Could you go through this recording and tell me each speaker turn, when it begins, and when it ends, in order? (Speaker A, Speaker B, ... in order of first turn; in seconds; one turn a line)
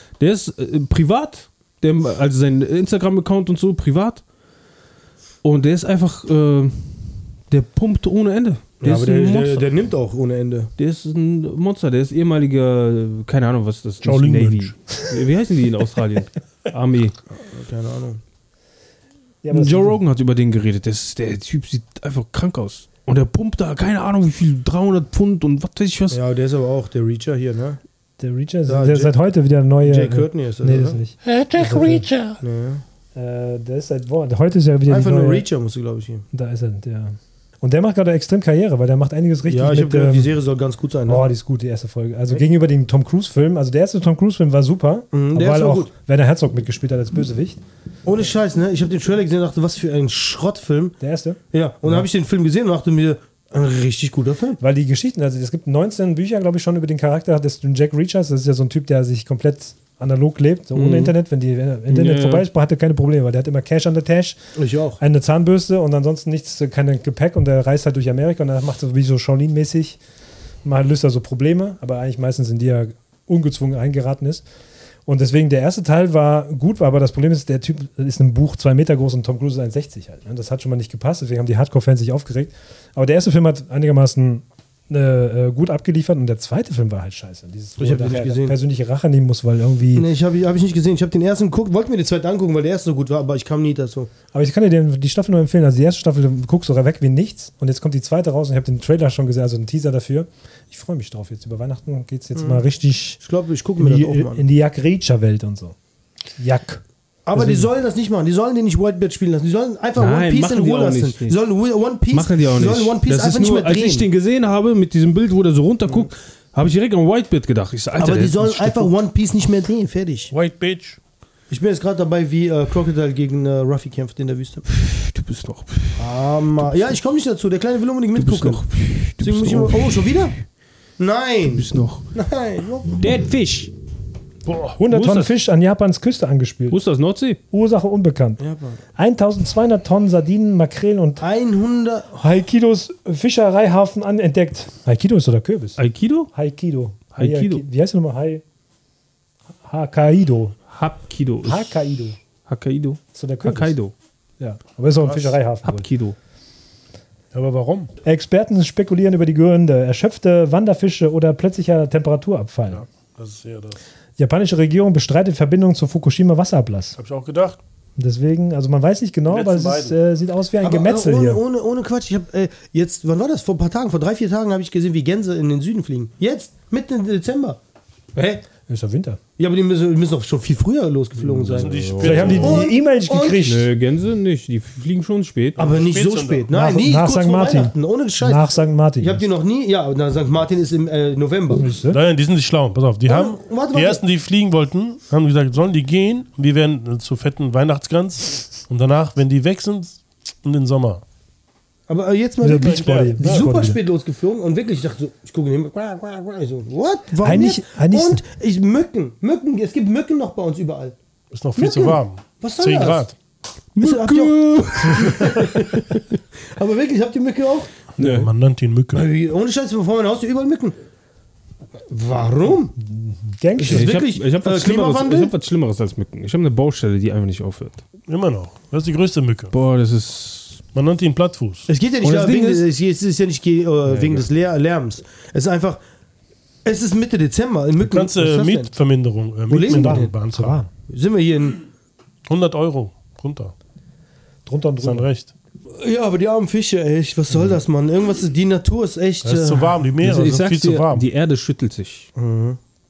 Speaker A: 0.2-4.2
Speaker A: 5.4-9.7
Speaker B: 8.8-10.7
Speaker A: 10.8-17.1
Speaker C: 14.0-14.7
Speaker B: 17.3-18.2
Speaker D: 19.4-20.0
Speaker A: 19.5-26.2
Speaker B: 26.1-27.8
Speaker D: 28.2-32.1
Speaker B: 28.7-29.2
Speaker B: 29.8-31.0
Speaker A: 31.7-32.2
Speaker B: 32.4-32.8
Speaker D: 33.1-35.4
Speaker B: 34.9-36.2
Speaker D: 36.3-40.3
Speaker B: 39.5-41.2
Speaker D: 41.1-47.6
Speaker B: 45.1-45.9
Speaker B: 48.0-51.0
Speaker D: 51.0-52.0
Speaker B: 51.5-54.6
Speaker D: 54.6-64.4
Speaker A: 60.7-61.1
Speaker A: 61.9-62.5
Speaker B: 64.5-65.0
Speaker D: 65.0-70.0
Speaker D: 70.6-74.4
Speaker D: 75.0-90.1
Speaker B: 87.8-88.5
Speaker B: 89.9-94.1
Speaker D: 94.3-103.2
Speaker B: 102.3-102.6
Speaker B: 103.2-104.4
Speaker D: 103.8-105.8
Speaker D: 106.4-106.8
Speaker B: 107.2-114.0
Speaker D: 107.3-107.7
Speaker A: 110.0-111.4
Speaker A: 112.1-118.9
Speaker B: 118.0-120.3
Speaker C: 120.3-121.0
Speaker B: 121.5-124.6
Speaker A: 124.7-126.0
Speaker B: 126.0-128.6
Speaker A: 128.1-130.0
Speaker B: 129.2-130.3
Speaker B: 131.0-132.9
Speaker A: 131.5-132.0
Speaker A: 132.9-133.7
Speaker C: 134.4-134.8
Speaker D: 134.8-136.8
Speaker A: 134.9-135.3
Speaker A: 136.7-137.4
Speaker D: 137.5-138.4
Speaker B: 138.4-138.8
Speaker D: 138.9-141.2
Speaker B: 141.2-142.2
Speaker D: 142.2-145.8
Speaker A: 145.8-146.3
Speaker D: 146.3-148.4
Speaker A: 147.2-147.6
Speaker D: 149.6-150.6
Speaker A: 150.7-151.8
Speaker D: 151.4-152.2
Speaker A: 152.5-153.9
Speaker D: 153.1-153.8
Speaker D: 154.4-155.9
Speaker C: 155.0-155.3
Speaker A: 155.6-156.2
Speaker C: 157.3-157.9
Speaker D: 158.0-162.8
Speaker C: 162.7-163.8
Speaker D: 164.2-167.0
Speaker C: 167.0-167.6
Speaker D: 168.0-171.4
Speaker C: 169.3-170.0
Speaker B: 170.6-177.6
Speaker B: 178.1-178.4
Speaker D: 178.7-179.2
Speaker B: 179.4-183.5
Speaker A: 181.4-182.6
Speaker C: 181.5-182.7
Speaker D: 182.0-183.7
Speaker A: 183.4-185.6
Speaker C: 185.6-186.5
Speaker B: 185.6-191.6
Speaker D: 186.5-189.2
Speaker D: 191.6-192.0
Speaker C: 191.9-201.0
Speaker B: 193.1-194.0
Speaker B: 201.9-210.9
Speaker D: 202.4-203.8
Speaker C: 202.6-203.5
Speaker D: 207.2-208.2
Speaker C: 211.3-213.1
Speaker B: 211.6-213.1
Speaker A: 213.7-216.0
Speaker B: 213.8-217.7
Speaker C: 218.0-219.1
Speaker A: 218.0-218.3
Speaker B: 218.9-220.8
Speaker B: 221.9-222.8
Speaker D: 222.9-223.9
Speaker B: 223.6-225.3
Speaker A: 223.6-227.8
Speaker C: 228.1-229.5
Speaker A: 229.5-230.6
Speaker C: 230.7-231.7
Speaker B: 231.7-235.8
Speaker A: 232.0-232.7
Speaker A: 233.9-234.3
Speaker B: 236.6-238.7
Speaker C: 237.8-240.6
Speaker B: 239.5-240.1
Speaker D: 239.5-240.7
Speaker B: 240.9-241.6
Speaker C: 242.3-243.5
Speaker D: 244.4-245.1
Speaker C: 244.8-245.3
Speaker B: 245.7-249.8
Speaker C: 249.2-251.1
Speaker A: 250.0-252.1
Speaker B: 252.2-252.6